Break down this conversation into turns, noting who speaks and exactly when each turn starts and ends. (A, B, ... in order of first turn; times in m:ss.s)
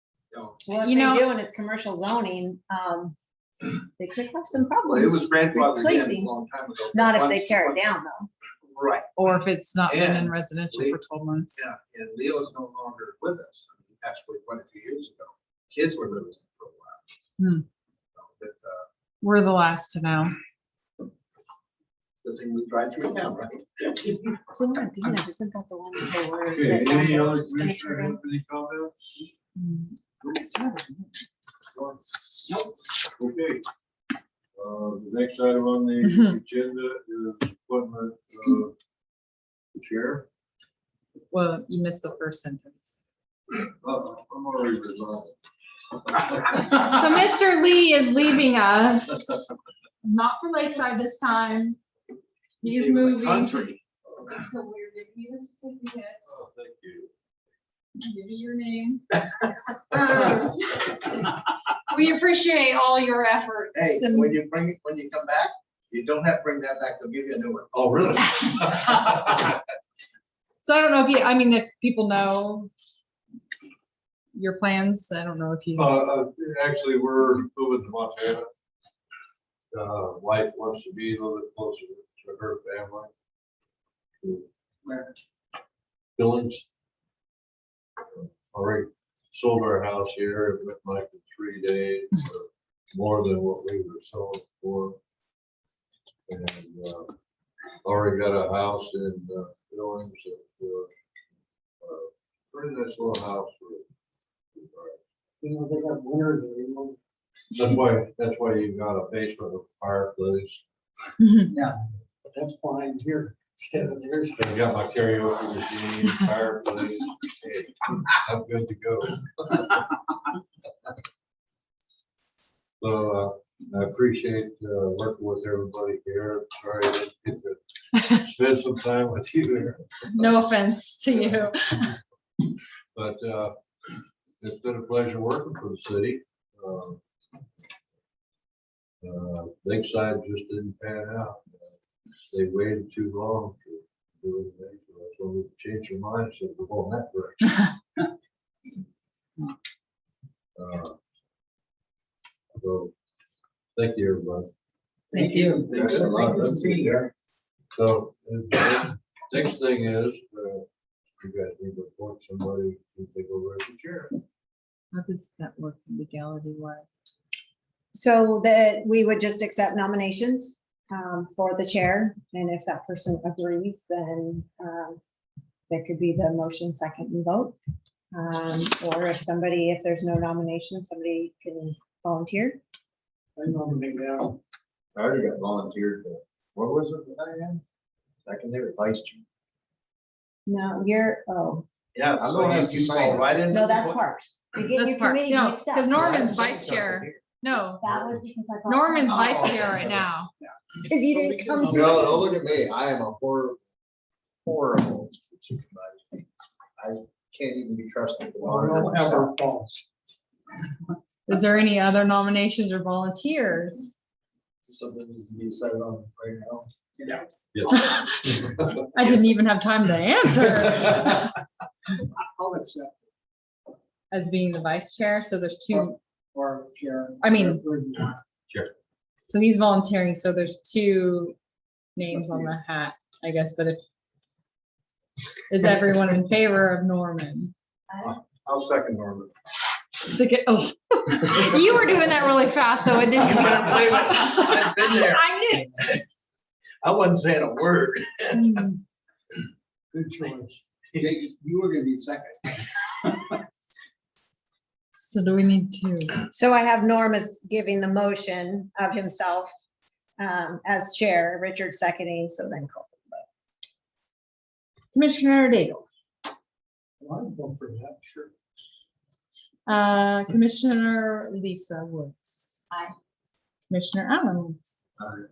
0:00.3-0:00.6 A
0:00.6-0:03.2 B
0:00.8-0:01.3 C
0:04.0-0:06.3 B
0:04.9-0:07.9 A
0:06.9-0:08.3 B
0:08.7-0:09.1 A
0:09.2-0:11.6 C
0:09.9-0:11.0 A
0:11.6-0:17.0 A
0:17.4-0:17.7 C
0:18.2-0:18.9 A
0:19.2-0:20.3 C
0:22.2-0:24.4 A
0:24.6-0:28.2 B
0:26.5-0:29.2 D
0:29.6-0:31.1 C
0:33.2-0:33.6 D
0:34.6-0:38.7 D
0:36.0-0:36.4 C
0:39.7-0:40.3 D
0:41.3-0:43.0 C
0:43.8-0:45.3 D
0:46.7-0:49.4 C
0:50.0-0:51.8 C
0:52.6-0:53.7 C
0:52.6-0:53.8 A
0:54.3-0:56.4 C
0:56.2-0:57.1 D
0:58.0-0:59.0 C
1:00.0-1:00.5 A
1:01.9-1:04.4 C
1:03.8-1:09.0 A
1:07.8-1:09.0 D
1:10.6-1:12.7 C
1:14.3-1:16.0 C
1:15.8-1:18.5 D
1:19.7-1:23.1 D
1:24.2-1:24.5 D
1:26.2-1:26.6 D
1:28.1-1:35.0 D
1:36.3-1:37.1 D
1:37.8-1:40.9 D
1:41.8-1:43.9 D
1:44.6-1:45.0 D
1:45.4-1:47.0 E
1:47.5-1:50.6 D
1:51.2-1:51.5 C
1:51.5-1:54.5 E
1:54.4-1:59.7 D
2:02.8-2:09.9 D
2:10.1-2:11.9 C
2:13.0-2:13.5 D
2:14.4-2:17.0 D
2:19.0-2:21.7 D
2:22.3-2:27.6 D
2:30.6-2:31.0 D
2:32.6-2:32.9 D
2:33.8-2:34.5 D
2:35.1-2:35.6 C
2:35.1-2:37.1 E
2:35.6-2:37.0 F
2:35.7-2:36.3 D
2:37.7-2:40.7 D
2:41.2-2:44.2 D
2:44.9-2:46.9 C
2:47.9-2:55.0 B
2:55.7-2:57.6 B
2:58.1-3:02.6 B
3:03.4-3:04.4 E
3:05.0-3:07.6 F
3:08.2-3:09.2 F
3:10.5-3:11.6 B
3:12.0-3:14.0 A
3:12.2-3:13.3 F
3:13.5-3:16.1 B
3:14.8-3:17.8 C
3:16.0-3:17.2 A
3:17.8-3:19.9 B
3:18.7-3:20.3 C
3:19.2-3:19.8 E
3:20.9-3:22.2 B
3:21.1-3:22.3 E
3:21.6-3:23.6 F
3:24.4-3:26.2 F
3:26.8-3:29.3 F
3:28.4-3:29.8 E
3:31.3-3:34.0 C
3:34.7-3:36.7 F
3:37.5-3:38.8 D
3:37.7-3:38.2 C
3:38.9-3:41.3 C
3:42.1-3:43.0 E
3:44.1-3:46.0 C
3:45.7-3:48.2 E
3:47.2-3:47.6 C
3:49.3-3:51.4 C
3:52.0-3:53.8 C
3:55.5-3:57.5 C
3:57.9-3:58.2 B
3:58.0-3:59.3 A
4:00.1-4:05.8 C
4:03.2-4:06.0 A
4:06.8-4:08.7 A
4:08.4-4:08.7 C
4:09.9-4:13.4 E
4:14.9-4:16.2 C
4:16.3-4:19.5 B
4:20.2-4:23.2 B
4:24.9-4:25.8 C
4:27.0-4:28.3 E
4:29.7-4:32.6 C
4:33.7-4:34.8 C